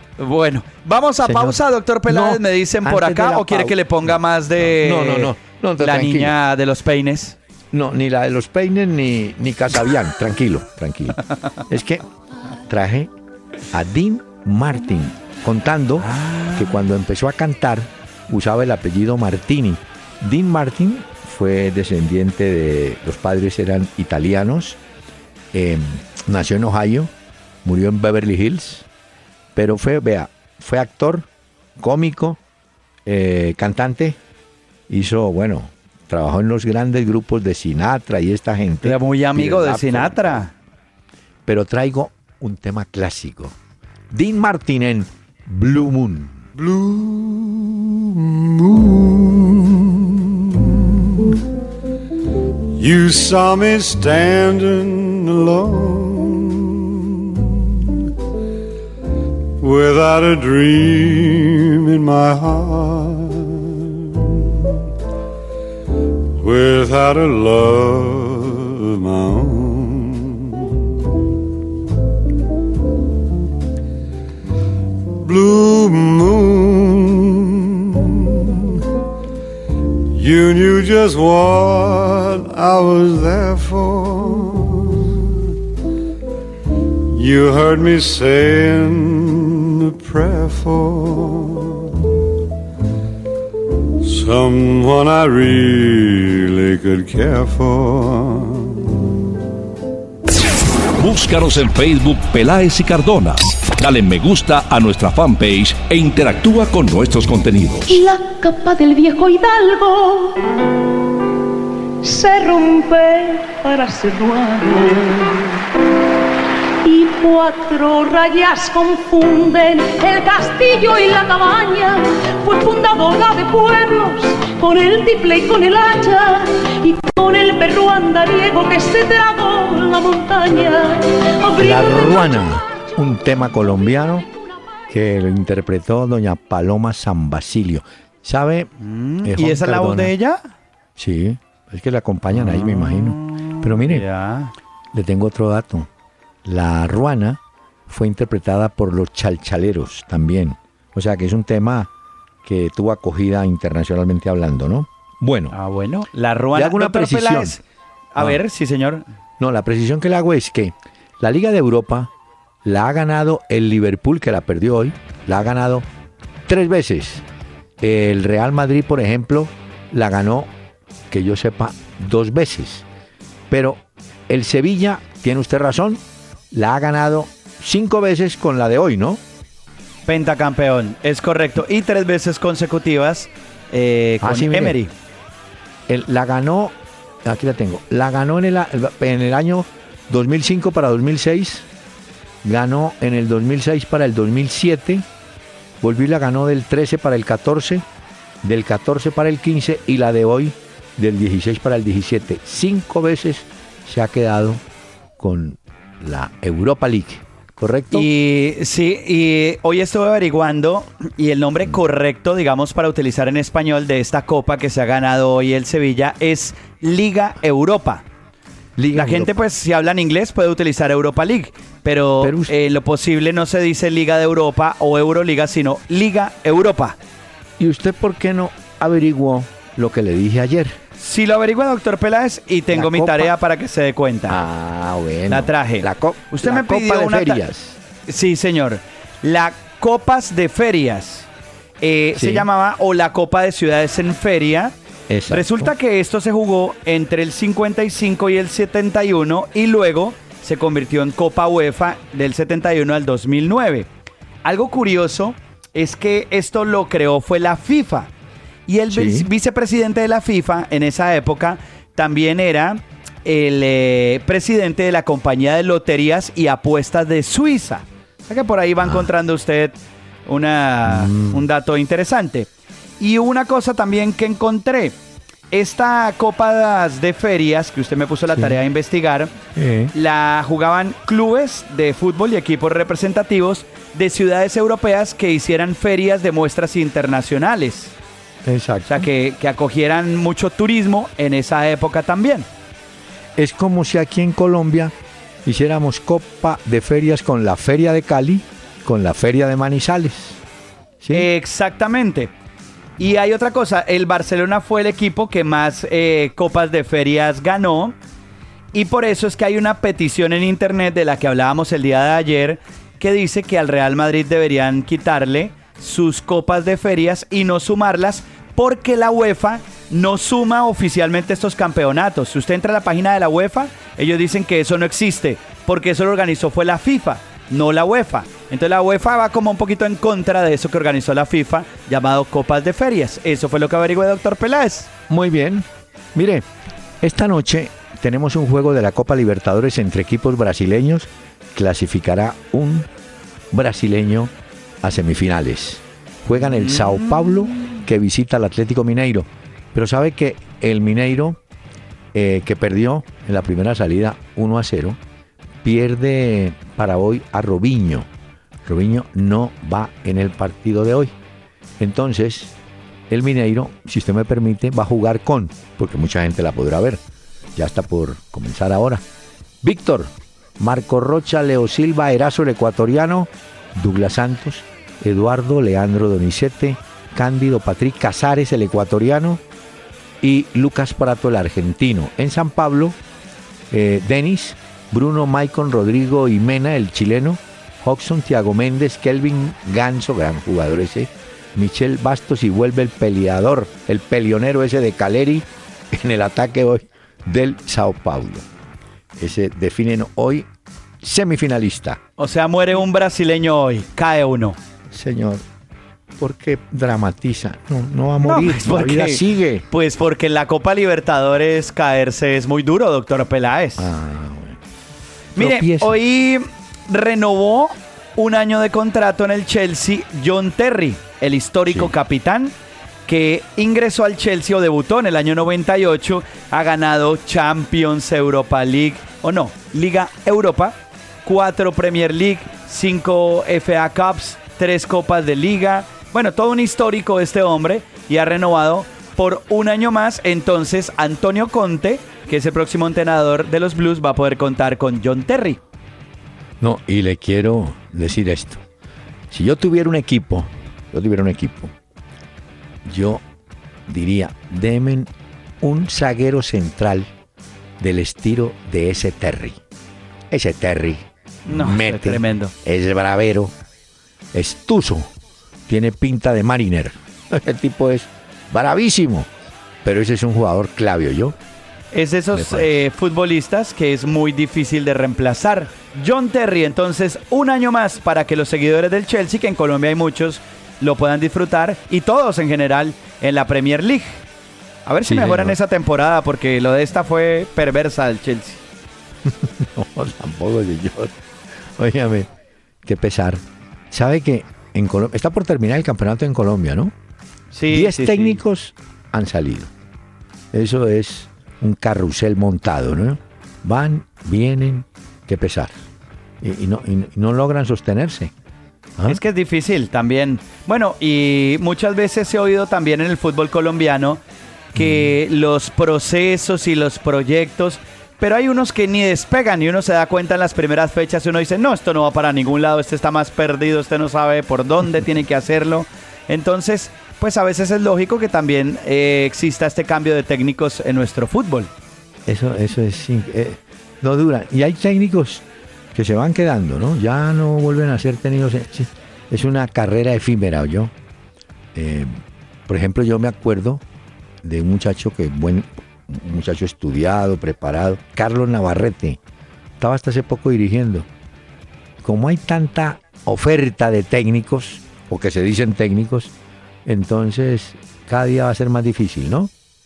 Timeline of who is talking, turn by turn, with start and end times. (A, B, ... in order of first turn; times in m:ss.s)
0:00.2-0:07.4 A
0:01.2-0:06.4 B
0:07.7-0:13.1 B
0:13.7-0:24.8 B
0:16.0-0:16.7 A
0:25.5-0:27.1 B
0:27.6-0:28.8 B
0:29.5-0:32.4 B
0:33.0-0:34.2 B
0:34.9-0:40.4 B
0:38.8-0:40.5 A
0:41.4-0:43.6 B
0:44.1-0:46.4 B
0:46.5-0:51.4 C
0:52.8-0:57.6 C
0:59.6-1:04.6 C
1:06.4-1:10.6 C
1:15.2-1:18.5 C
1:20.1-1:25.2 C
1:27.1-1:31.9 C
1:34.0-1:38.8 C
1:41.0-1:48.0 D
1:47.9-1:50.6 E
1:52.0-1:55.6 E
1:56.8-2:12.2 E
2:11.6-2:14.3 B
2:14.9-2:18.7 B
2:18.8-2:20.5 A
2:19.2-2:20.1 B
2:21.0-2:24.0 B
2:22.3-2:24.5 A
2:24.9-2:25.9 B
2:26.4-2:31.9 B
2:32.4-2:35.5 B
2:35.5-2:37.6 A
2:36.5-2:37.6 B
2:38.1-2:39.0 A
2:39.4-2:42.1 B
2:42.6-2:45.8 B
2:46.5-2:47.2 B
2:47.8-2:50.5 B
2:51.1-2:52.8 B
2:53.5-2:59.2 B
3:00.1-3:04.9 A
3:04.2-3:04.8 B
3:05.9-3:11.6 B
3:12.4-3:15.0 B
3:15.8-3:17.8 B
3:18.4-3:24.6 B
3:25.2-3:28.1 B
3:27.9-3:38.0 A
3:38.8-3:39.3 B
3:38.9-3:47.0 A
3:42.2-3:42.5 B
3:47.6-3:50.8 B
3:51.0-3:54.4 A
3:52.7-3:53.3 B
3:54.3-3:57.8 B
3:55.3-3:57.4 A
3:58.1-4:01.3 A
4:01.8-4:04.7 A
4:02.1-4:02.5 B
4:05.1-4:05.7 B
4:05.3-4:13.9 A
4:14.4-4:18.1 A
4:18.7-4:34.9 A
4:18.9-4:19.3 B
4:28.8-4:29.1 B
4:30.8-4:31.4 B
4:35.5-4:39.3 A
4:38.3-4:38.5 B
4:39.5-4:39.9 B
4:39.9-4:47.9 A
4:48.4-4:49.1 B
4:48.8-4:52.5 A
4:53.4-4:54.9 B
4:55.4-5:00.4 B
5:01.0-5:01.3 B
5:01.1-5:02.3 A
5:03.0-5:08.0 A
5:08.7-5:34.9 A
5:35.1-5:36.4 B
5:37.0-5:42.9 B
5:43.5-5:51.4 B
5:46.4-5:47.7 A
5:52.1-5:55.0 B
5:55.6-5:58.1 B
5:58.6-6:01.1 B
6:01.8-6:02.5 B
6:03.1-6:07.0 B
6:07.5-6:09.0 B
6:09.6-6:19.4 B
6:20.2-6:23.0 B
6:23.7-6:38.4 B
6:39.2-6:40.5 B
6:41.0-6:42.0 B
6:42.2-6:44.6 A
6:44.9-6:45.4 B
6:46.2-6:49.6 B
6:48.2-6:53.9 A
6:53.8-6:54.6 B
6:55.3-6:56.0 B
6:55.4-7:02.5 A
7:01.7-7:01.9 B
7:03.0-7:25.6 A
7:26.6-7:28.6 B
7:29.3-7:31.7 B
7:32.8-7:33.2 B
7:33.9-7:35.1 B
7:35.6-7:37.1 B
7:37.8-7:39.6 B
7:40.3-7:43.5 B
7:41.5-7:42.5 A
7:44.3-7:45.1 B
7:45.7-7:49.3 B
7:49.8-7:51.4 B
7:51.9-8:04.2 A
7:52.3-7:52.8 B
8:04.8-8:08.6 A
8:05.0-8:05.6 B
8:09.2-8:11.1 B
8:11.8-8:12.3 B
8:12.8-8:16.9 B
8:17.5-8:18.4 A
8:17.7-8:19.7 B
8:20.5-8:25.7 B
8:26.4-8:28.3 B
8:29.1-8:34.2 A
8:34.7-8:51.7 A
8:34.7-8:35.1 B
8:52.2-9:00.9 B
9:01.7-9:02.1 B
9:02.7-9:03.8 B
9:04.4-9:09.2 B
9:09.8-9:11.1 B
9:12.0-9:16.3 B
9:16.8-9:19.5 B